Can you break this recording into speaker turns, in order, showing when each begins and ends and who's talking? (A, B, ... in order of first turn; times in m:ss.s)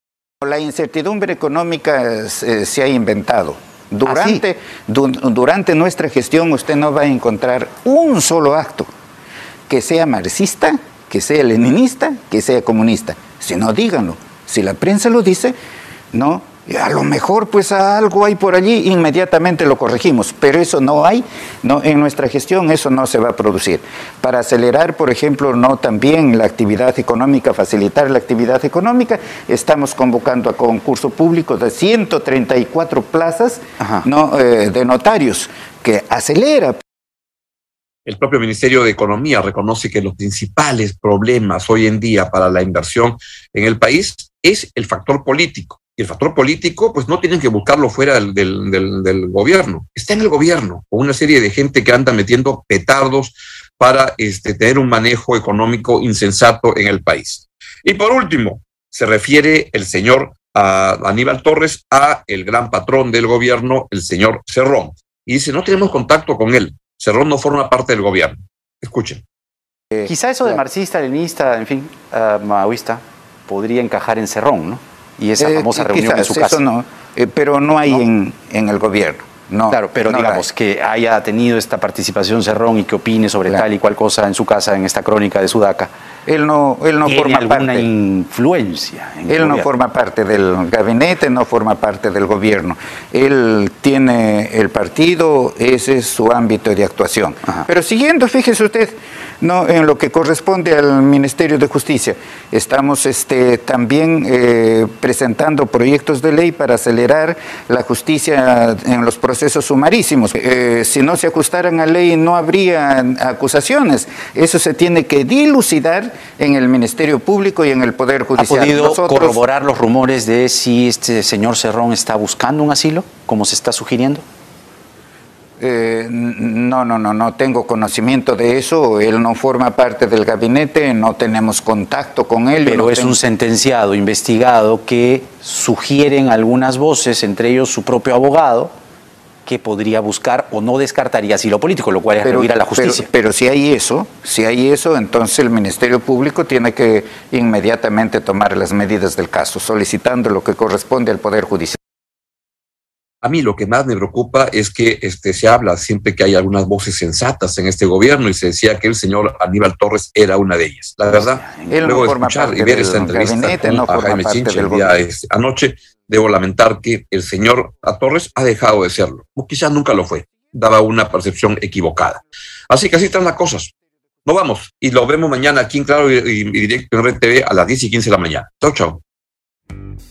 0:00.4-0:08.9 A
0:04.0-0:04.4 B
0:09.7-0:15.5 A
0:16.1-0:36.8 A
0:38.0-1:09.2 C
1:10.0-1:16.6 B
1:15.4-1:20.4 A
1:19.7-1:25.9 B
1:26.2-1:27.9 A
1:27.0-1:29.7 B
1:29.3-1:59.4 A
1:58.4-2:04.2 B
2:05.6-2:13.2 A
2:12.6-2:18.7 B
2:19.4-2:23.1 B
2:22.2-2:31.8 A
2:33.2-2:53.7 C
2:41.1-2:42.0 B
2:41.7-2:45.0 A
2:54.2-2:59.0 C